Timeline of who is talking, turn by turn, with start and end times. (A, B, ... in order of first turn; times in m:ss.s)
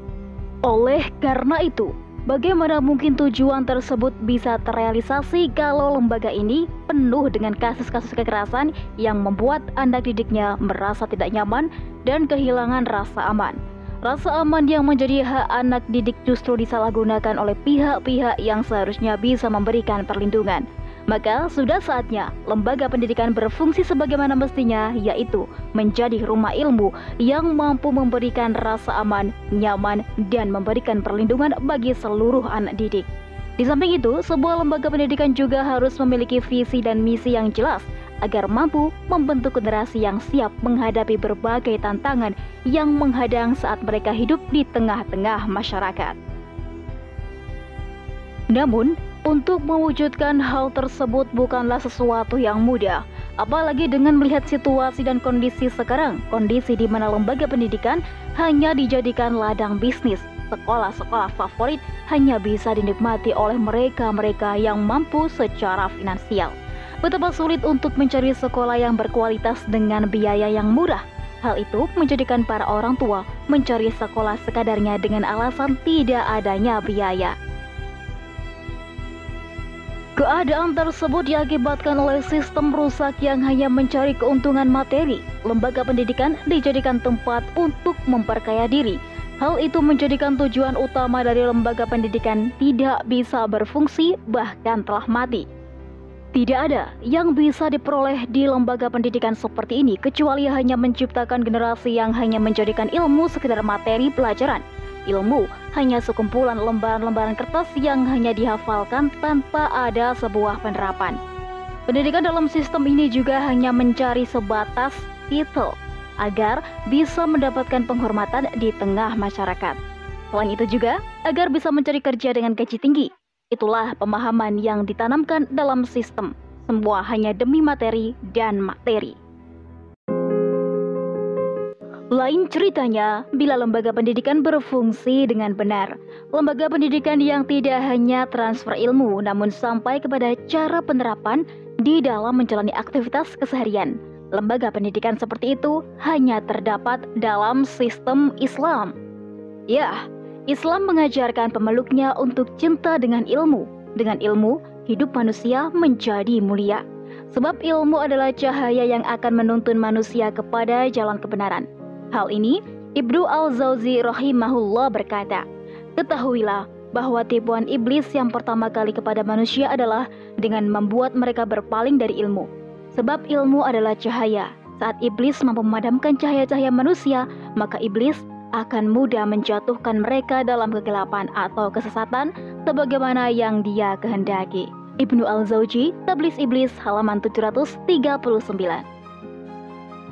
0:00.6-0:33.1 A
0:33.6-0:46.2 A
0:48.5-1:17.3 A
1:20.2-1:35.5 A
1:36.3-1:51.2 A
1:51.9-1:59.8 A
2:00.3-2:09.2 A
2:12.1-2:28.9 A
2:29.7-2:45.4 A
2:46.0-3:08.8 A